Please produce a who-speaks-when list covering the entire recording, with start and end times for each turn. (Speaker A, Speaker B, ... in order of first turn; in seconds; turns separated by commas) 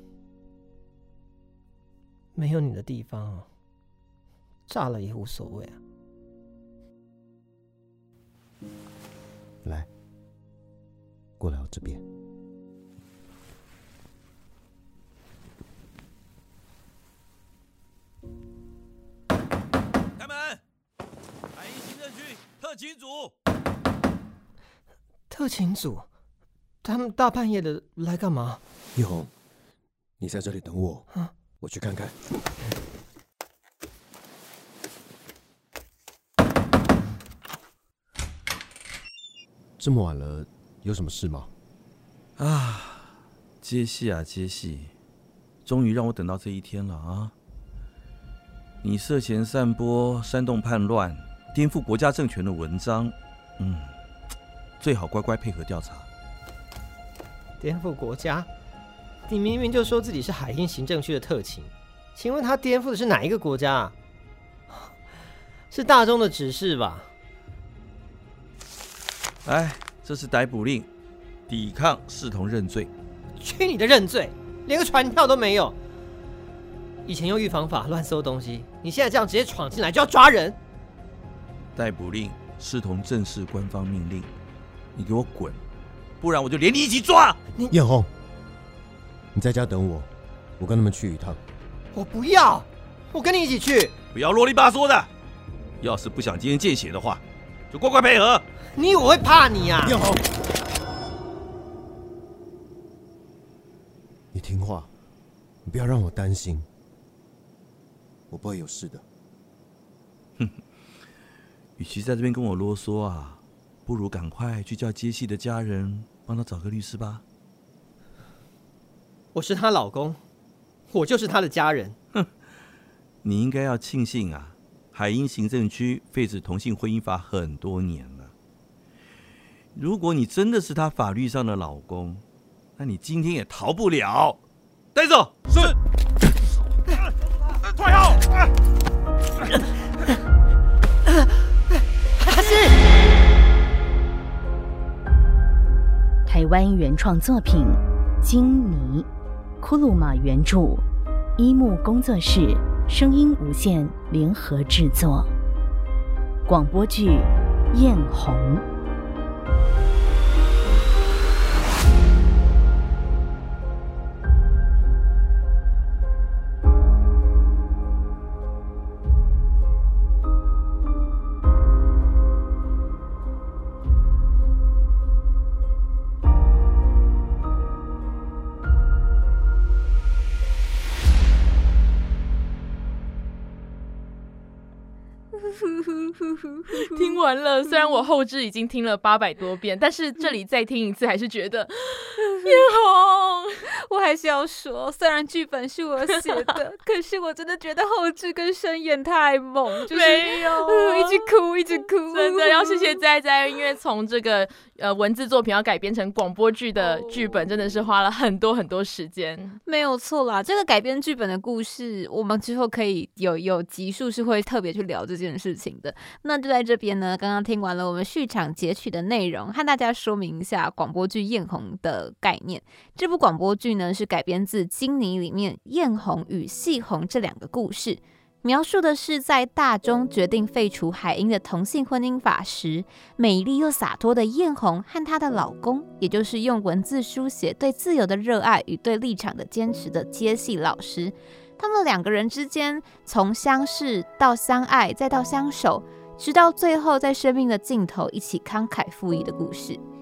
Speaker A: 2.3-3.5, Speaker A: 4.7-5.8, Speaker B: 9.6-9.9, Speaker B: 11.4-12.0, Speaker C: 20.2-20.6, Speaker C: 21.5-23.3, Speaker A: 25.3-26.1, Speaker A: 26.8-28.6, Speaker B: 28.9-29.3, Speaker B: 30.2-31.1, Speaker A: 31.1-31.4, Speaker B: 31.6-32.2, Speaker B: 39.8-41.5, Speaker C: 42.4-44.9, Speaker C: 45.6-47.3, Speaker C: 48.8-53.9, Speaker C: 54.8-56.0, Speaker A: 57.6-58.5, Speaker A: 59.3-63.9, Speaker A: 65.7-67.1, Speaker C: 69.4-70.9, Speaker C: 71.5-72.9, Speaker A: 73.4-75.8, Speaker A: 77.0-80.6, Speaker C: 81.8-84.3, Speaker C: 85.0-85.5, Speaker C: 86.2-87.4, Speaker B: 87.7-88.1, Speaker B: 89.3-91.4, Speaker A: 91.9-93.9, Speaker C: 94.1-95.1, Speaker C: 95.8-98.4, Speaker A: 98.7-100.0, Speaker B: 99.9-100.2, Speaker B: 104.3-104.9, Speaker B: 105.6-106.7, Speaker B: 108.3-109.0, Speaker C: 111.8-117.2, Speaker A: 119.3-120.2, Speaker A: 120.9-122.0, Speaker C: 123.2-128.3, Speaker C: 129.7-132.2, Speaker C: 132.8-134.4, Speaker C: 135.0-135.3, Speaker A: 135.0-135.7, Speaker A: 142.2-142.7, Speaker D: 146.2-149.1, Speaker D: 149.6-150.8, Speaker D: 151.4-155.3, Speaker D: 156.5-158.6, Speaker E: 185.3-188.0, Speaker F: 186.7-193.6, Speaker E: 192.4-192.7, Speaker E: 193.7-203.0, Speaker F: 199.8-201.3, Speaker F: 202.1-209.6, Speaker E: 206.8-207.2, Speaker E: 209.7-249.8